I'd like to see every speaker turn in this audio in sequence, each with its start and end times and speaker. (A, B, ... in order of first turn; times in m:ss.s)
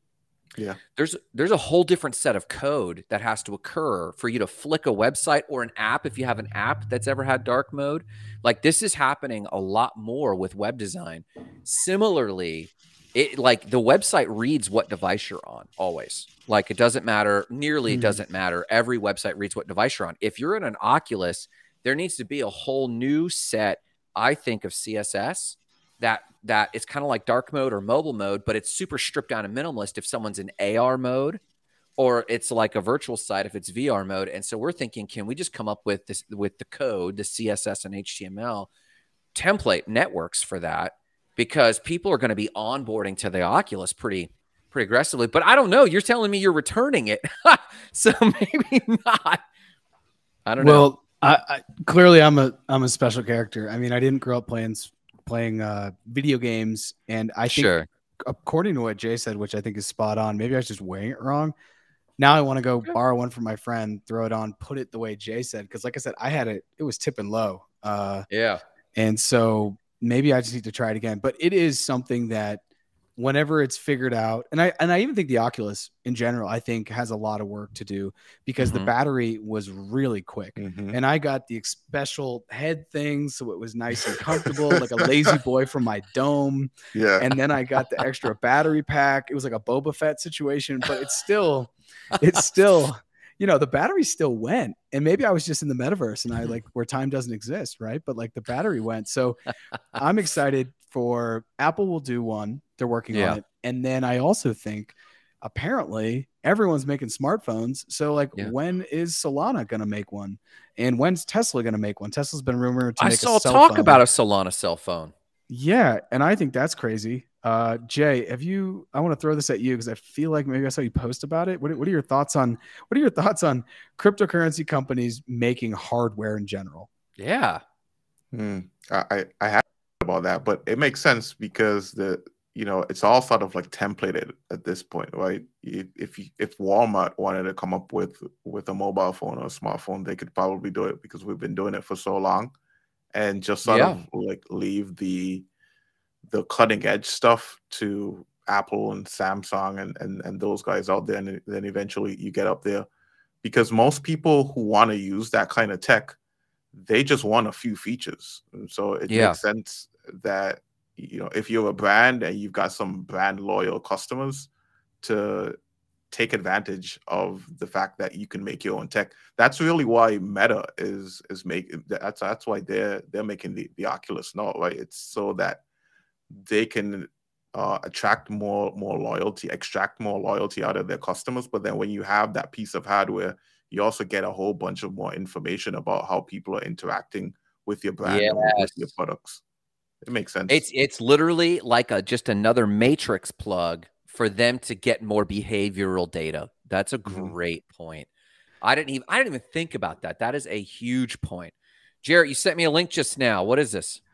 0:01.0-0:31.4 A
0:17.9-0:18.2 B
0:32.0-0:38.7 A
0:39.3-0:49.4 A
0:50.4-0:50.9 A
0:50.6-1:01.5 B
0:57.4-0:57.9 A
1:02.2-1:08.3 B
1:08.3-1:08.6 A
1:08.9-1:12.6 B
1:13.2-1:39.4 B
1:18.6-1:18.9 A
1:20.6-1:21.0 C
1:25.0-1:25.3 C
1:26.9-1:27.3 C
1:39.9-1:54.0 B
1:43.1-1:43.4 A
1:53.0-1:55.1 A
1:55.5-2:06.9 B
2:07.2-2:07.6 A
2:08.3-2:22.5 C
2:23.1-2:25.5 C
2:23.6-2:24.0 A
2:26.3-2:32.9 C
2:33.4-2:36.2 C
2:36.7-2:44.5 C
2:39.1-2:39.4 A
2:45.0-2:45.6 C
2:46.1-2:55.6 C
2:56.3-3:09.4 C
3:08.0-3:08.9 A
3:10.0-3:10.6 C
3:10.5-3:18.1 A
3:17.0-3:17.3 C
3:18.6-3:24.0 A